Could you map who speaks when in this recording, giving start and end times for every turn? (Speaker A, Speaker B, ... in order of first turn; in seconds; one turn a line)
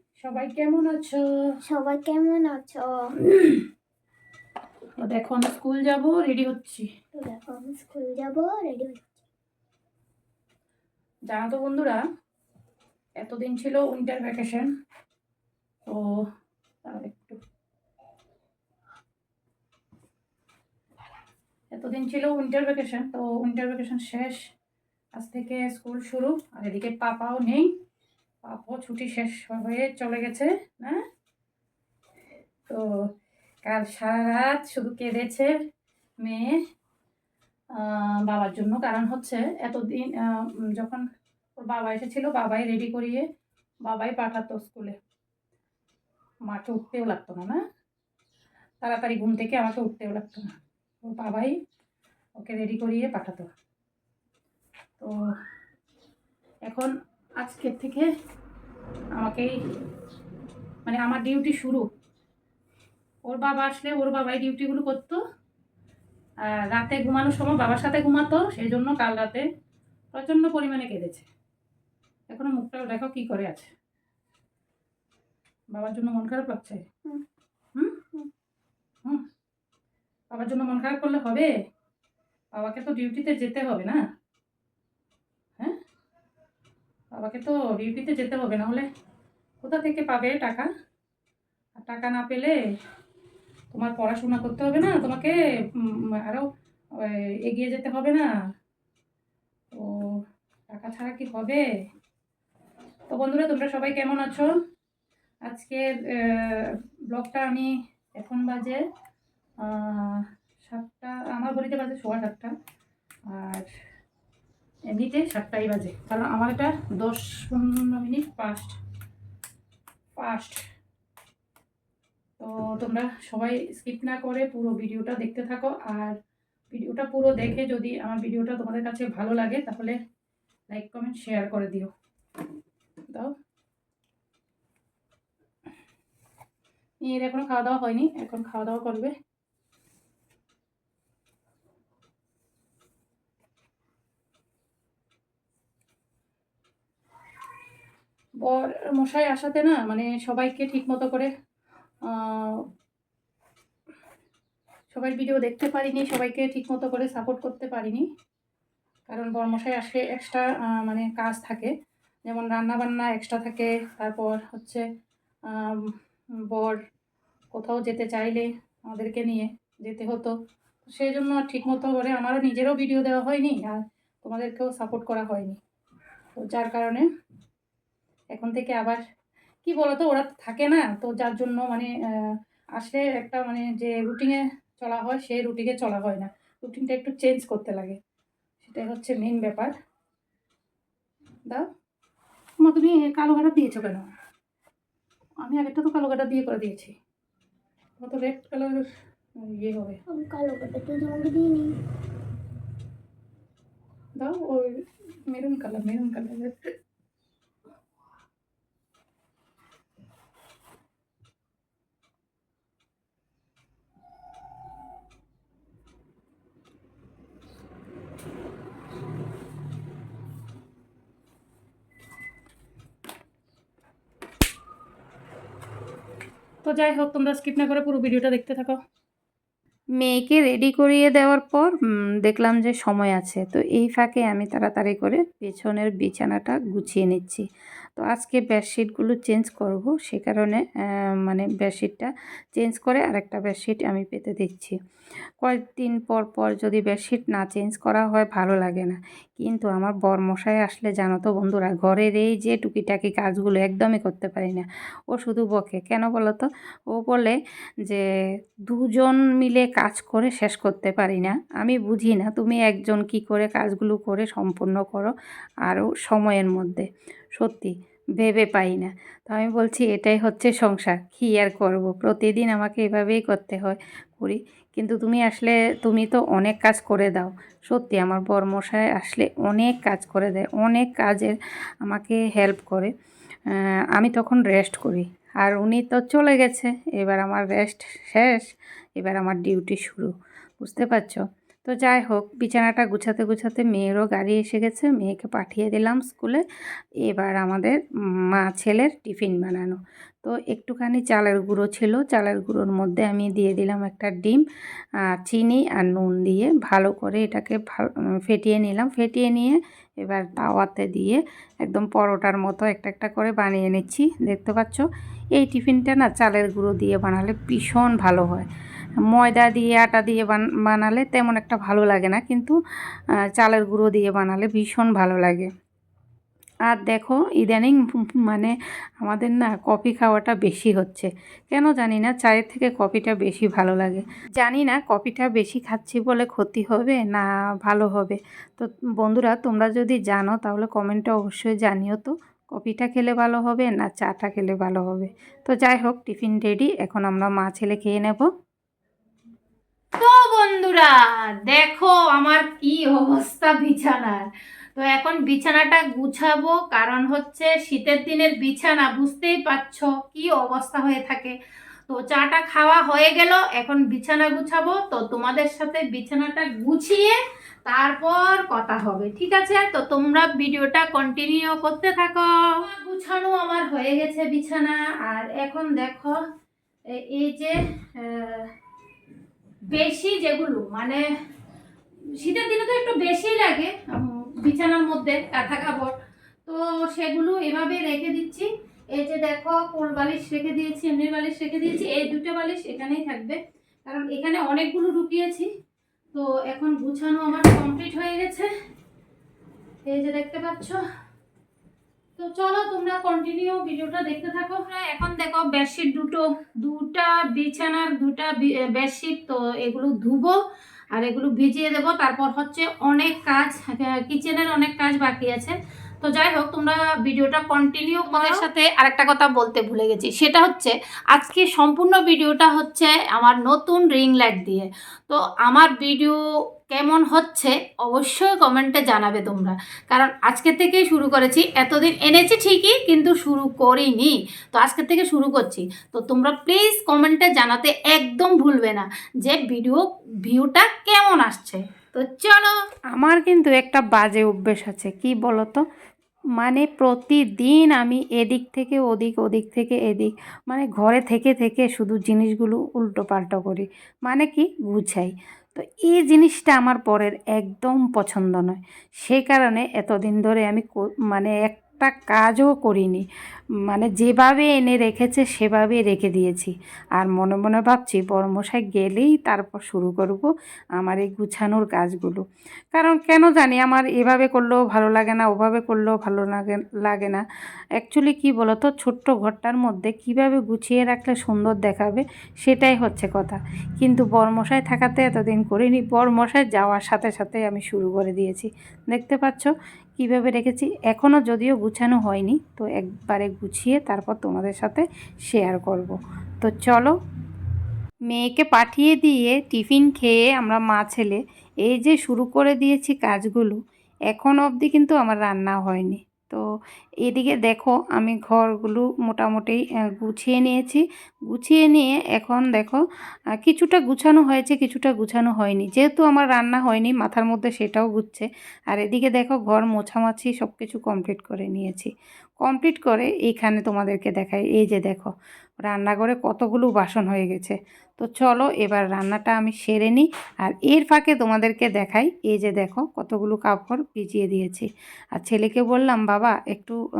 Speaker A: 0.2-1.2
Speaker B: 1.6-3.6
Speaker A: 5.0-6.9
Speaker B: 7.2-9.2
Speaker A: 11.3-12.0
Speaker A: 13.2-14.7
Speaker A: 15.9-16.2
Speaker A: 16.9-17.4
Speaker A: 21.7-24.4
Speaker A: 25.1-27.7
Speaker A: 28.4-31.0
Speaker A: 33.6-35.5
Speaker A: 36.2-36.6
Speaker A: 37.8-41.0
Speaker A: 41.6-43.2
Speaker A: 43.8-44.9
Speaker A: 46.5-47.6
Speaker A: 48.8-50.5
Speaker A: 51.1-51.5
Speaker A: 52.4-53.5
Speaker A: 56.7-58.1
Speaker A: 59.2-59.5
Speaker A: 60.9-61.9
Speaker A: 63.3-65.2
Speaker A: 66.5-69.4
Speaker A: 70.1-71.2
Speaker A: 72.3-73.7
Speaker A: 75.7-76.8
Speaker A: 77.8-78.0
Speaker A: 80.3-81.5
Speaker A: 82.5-84.0
Speaker A: 87.2-88.9
Speaker A: 89.6-90.7
Speaker A: 91.8-92.5
Speaker A: 93.7-96.4
Speaker A: 97.0-98.3
Speaker A: 100.7-101.6
Speaker A: 103.1-104.5
Speaker A: 105.5-108.8
Speaker A: 109.6-112.5
Speaker A: 113.3-113.7
Speaker A: 114.9-118.8
Speaker A: 120.2-120.6
Speaker A: 122.4-126.1
Speaker A: 126.7-130.0
Speaker A: 130.7-131.9
Speaker A: 137.0-139.1
Speaker A: 148.4-151.3
Speaker A: 152.1-152.6
Speaker A: 154.9-158.0
Speaker A: 159.1-161.7
Speaker A: 162.3-164.8
Speaker A: 165.5-165.9
Speaker A: 166.5-166.8
Speaker A: 167.5-170.3
Speaker A: 170.8-175.6
Speaker A: 176.4-177.1
Speaker A: 178.3-179.0
Speaker A: 179.6-188.0
Speaker A: 188.6-189.7
Speaker A: 192.6-194.1
Speaker A: 195.4-196.9
Speaker A: 198.0-198.8
Speaker A: 199.4-200.0
Speaker B: 200.1-201.7
Speaker A: 204.2-204.7
Speaker A: 205.3-206.5
Speaker A: 226.6-228.8
Speaker C: 230.0-231.7
Speaker A: 230.2-231.4
Speaker C: 232.3-237.4
Speaker A: 232.3-235.0
Speaker A: 235.6-235.8
Speaker C: 238.0-240.6
Speaker A: 239.2-240.5
Speaker C: 241.3-244.7
Speaker A: 241.4-241.9
Speaker A: 242.7-244.7
Speaker C: 245.4-254.6
Speaker A: 246.0-246.2
Speaker A: 246.9-248.7
Speaker A: 249.6-254.6
Speaker C: 255.1-257.3
Speaker A: 255.2-256.2
Speaker C: 258.7-265.1
Speaker A: 258.9-261.2
Speaker A: 261.8-265.0
Speaker C: 265.7-266.9
Speaker A: 266.1-266.8
Speaker C: 267.4-281.3
Speaker A: 269.4-270.2
Speaker A: 271.6-273.0
Speaker A: 277.9-281.3
Speaker C: 281.9-282.9
Speaker A: 281.9-282.6
Speaker C: 284.0-288.3
Speaker A: 284.0-288.3
Speaker C: 289.0-290.1
Speaker A: 289.0-290.0
Speaker C: 290.6-296.4
Speaker A: 290.7-291.1
Speaker A: 291.8-296.2
Speaker C: 297.1-297.7
Speaker A: 297.1-297.7
Speaker C: 298.4-304.4
Speaker A: 298.4-298.7
Speaker A: 299.4-299.7
Speaker A: 300.6-303.9
Speaker C: 305.3-314.8
Speaker A: 306.1-307.6
Speaker A: 308.4-309.4
Speaker A: 310.7-311.0
Speaker A: 311.8-313.9
Speaker A: 314.4-314.6
Speaker C: 315.4-318.4
Speaker A: 315.5-318.4
Speaker A: 319.1-322.5
Speaker C: 319.7-322.5
Speaker A: 323.4-325.3
Speaker C: 323.6-325.5
Speaker C: 326.7-327.3
Speaker A: 326.7-327.8
Speaker A: 329.0-331.0
Speaker C: 329.4-348.3
Speaker A: 331.6-333.8
Speaker A: 334.4-337.1
Speaker A: 337.7-338.1
Speaker A: 350.0-361.3
Speaker A: 361.9-376.2
Speaker A: 376.9-378.5
Speaker A: 379.7-381.0
Speaker A: 382.2-385.9
Speaker A: 386.4-395.5
Speaker A: 396.1-398.5
Speaker A: 399.8-400.8
Speaker A: 402.2-410.4
Speaker A: 410.9-426.2
Speaker A: 426.7-442.5
Speaker C: 442.9-445.6
Speaker C: 446.4-459.9
Speaker A: 448.3-450.1
Speaker A: 450.6-453.4
Speaker A: 455.9-458.2
Speaker A: 459.3-463.0
Speaker C: 461.6-463.0
Speaker C: 463.7-466.5
Speaker A: 463.8-466.4
Speaker C: 467.0-470.3
Speaker A: 467.0-469.6
Speaker C: 470.8-472.2
Speaker A: 470.9-472.0
Speaker C: 472.8-477.2
Speaker A: 472.9-476.3
Speaker C: 477.8-496.9
Speaker A: 479.1-480.3
Speaker A: 485.3-488.4
Speaker A: 489.0-489.4
Speaker A: 491.2-492.2
Speaker A: 493.2-494.8
Speaker C: 498.1-503.6
Speaker A: 498.2-500.9
Speaker A: 501.7-503.5
Speaker C: 504.1-506.4
Speaker A: 504.1-505.9
Speaker A: 507.1-509.5
Speaker C: 507.1-510.8
Speaker A: 510.1-510.6
Speaker C: 511.3-512.8
Speaker A: 511.4-512.7
Speaker C: 513.4-521.9
Speaker A: 513.5-518.2
Speaker A: 518.8-521.8
Speaker C: 522.4-525.1
Speaker A: 522.5-524.9
Speaker C: 525.7-534.7
Speaker A: 525.8-527.5
Speaker A: 528.1-529.6
Speaker A: 530.8-531.9
Speaker A: 532.5-534.5
Speaker C: 535.2-536.8
Speaker A: 535.4-536.0